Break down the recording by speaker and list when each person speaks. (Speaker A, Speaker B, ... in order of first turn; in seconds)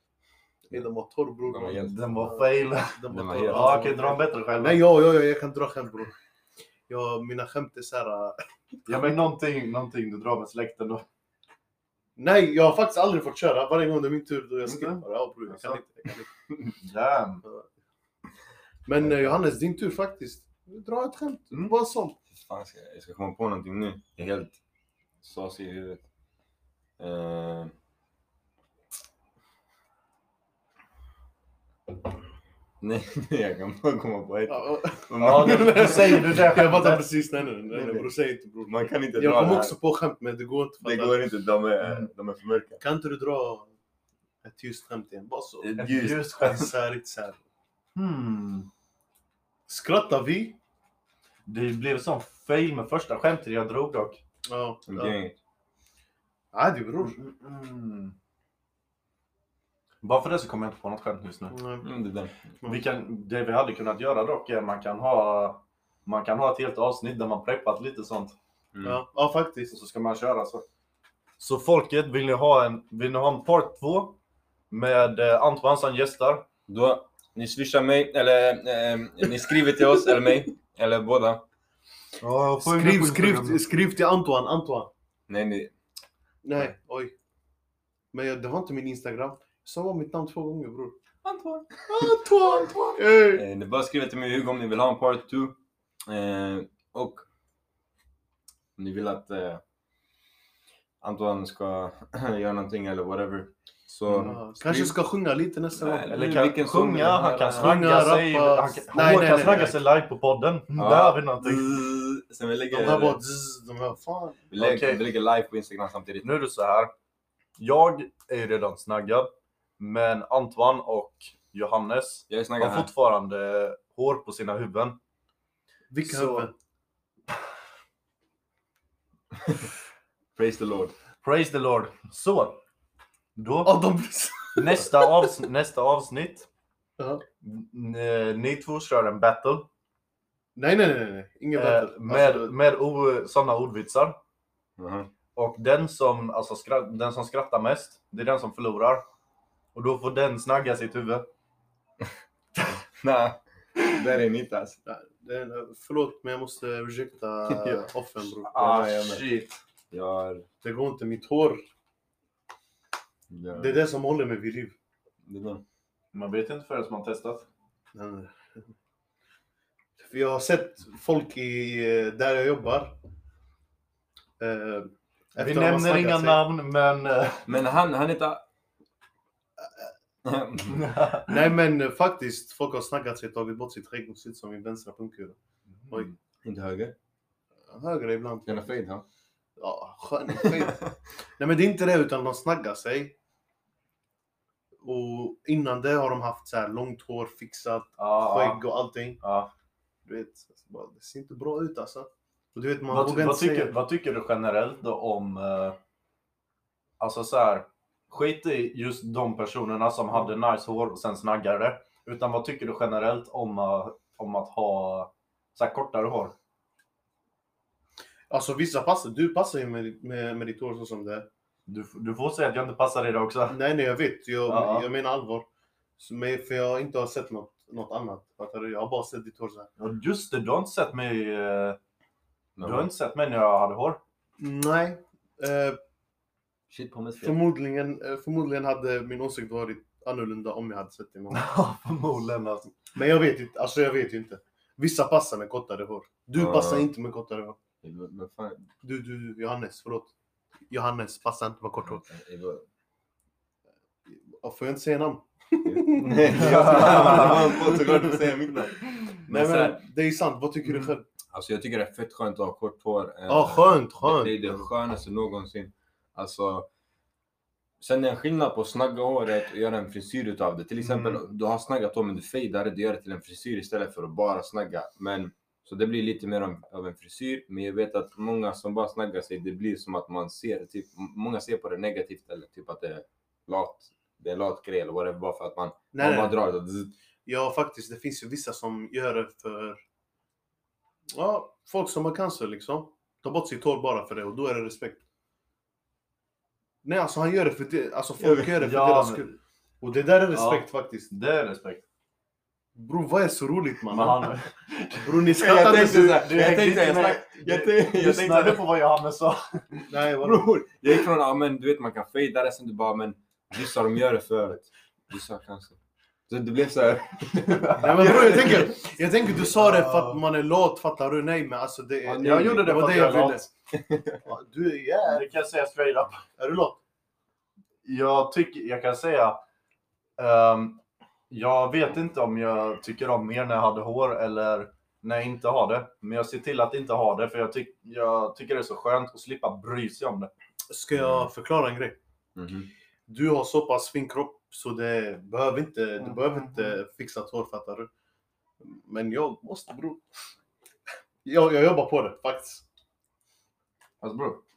Speaker A: 0.7-6.1, 6.9-9.0, 12.2-16.3, 18.9-22.1, 34.5-41.2, 42.8-43.7, 44.4-47.4, 49.7-50.6, 54.4-55.1, 56.5-57.2, 61.5-61.9, 68.8-69.7, 82.6-84.9, 86.4-87.1, 88.1-91.0, 91.9-93.4, 104.2-106.2, 107.5-109.8, 112.7-114.5, 125.9-126.5, 133.6-135.2, 137.0-137.2, 140.6-142.5, 154.8-158.6, 160.6-161.6, 163.5-164.7, 167.9-168.3, 170.0-173.0, 174.4-176.4, 181.2-185.4, 187.7-188.8, 189.6-193.1, 194.8-199.2, 200.1-203.7, 218.3-221.3, 223.5-225.4, 226.0-229.7, 234.4-235.8, 237.2-241.4, 242.9-247.6, 248.8-250.1, 250.7-252.0, 254.1-258.3, 259.2-261.0, 263.3-264.5, 285.9-286.4, 287.2-289.8, 291.1-295.0, 296.8-301.1, 302.8-304.4, 305.0-306.2, 309.9-310.5, 317.8-323.5, 324.2-325.3, 326.4-326.8, 340.7-342.0, 343.1-347.9, 348.6-350.0, 351.2-352.6
Speaker B: 1.5-2.2, 3.1-3.9, 22.3-24.6, 25.2-26.0, 27.0-27.7, 32.8-36.3, 37.7-38.1, 38.6-39.8, 40.8-42.8, 45.6-46.7, 54.9-55.4, 61.8-62.5, 68.7-69.0, 76.7-81.4, 85.3-85.7, 93.3-97.3, 98.8-99.6, 101.0-104.9, 105.7-107.8, 110.8-113.2, 114.5-116.3, 122.3-122.9, 130.3-130.9, 144.8-145.1, 152.7-154.8, 157.5-157.8, 158.5-159.3, 159.9-160.5, 163.3-163.8, 165.2-165.6, 177.5-178.4, 180.2-180.9, 186.4-186.9, 188.4-189.0, 232.6-232.9, 236.7-237.4, 246.3-246.9, 247.8-248.7, 251.8-252.6, 255.6-259.8, 261.3-266.7, 267.8-286.9, 298.2-298.5, 305.4-308.6, 310.2-315.8, 316.3-318.8, 322.1-322.6, 323.7-324.2, 340.9-341.2, 342.4-342.7
Speaker C: 1.7-4.8, 8.9-11.0, 14.6-15.8, 16.8-17.4, 19.1-19.3, 35.2-37.1, 45.8-46.6, 47.9-48.7, 51.5-54.2, 57.0-58.1, 60.0-61.5, 62.6-68.3, 69.7-70.7, 71.4-74.2, 74.7-76.5, 82.2-83.6, 91.3-91.6, 104.1-104.3, 106.1-111.7, 114.6-115.0, 116.2-116.9, 117.6-125.0, 126.0-126.5, 131.2-132.6, 133.3-133.8, 134.6-136.5, 137.4-139.7, 141.5-144.2, 145.3-149.0, 149.7-151.3, 158.4-159.6, 166.1-167.4, 175.4-177.5, 180.7-181.5, 185.8-186.1, 198.0-198.6, 199.2-199.5, 202.9-205.8, 207.0-216.3, 221.7-223.6, 224.5-224.9, 229.8-231.8, 232.6-234.0, 241.3-242.7, 256.1-257.5, 270.8-271.2, 298.6-299.2, 300.3-301.8, 303.9-309.9, 317.4-318.6, 319.4-320.2, 322.2-323.4, 325.1-326.2, 327.8-329.4, 330.2-340.3, 346.0-346.8, 354.0-354.4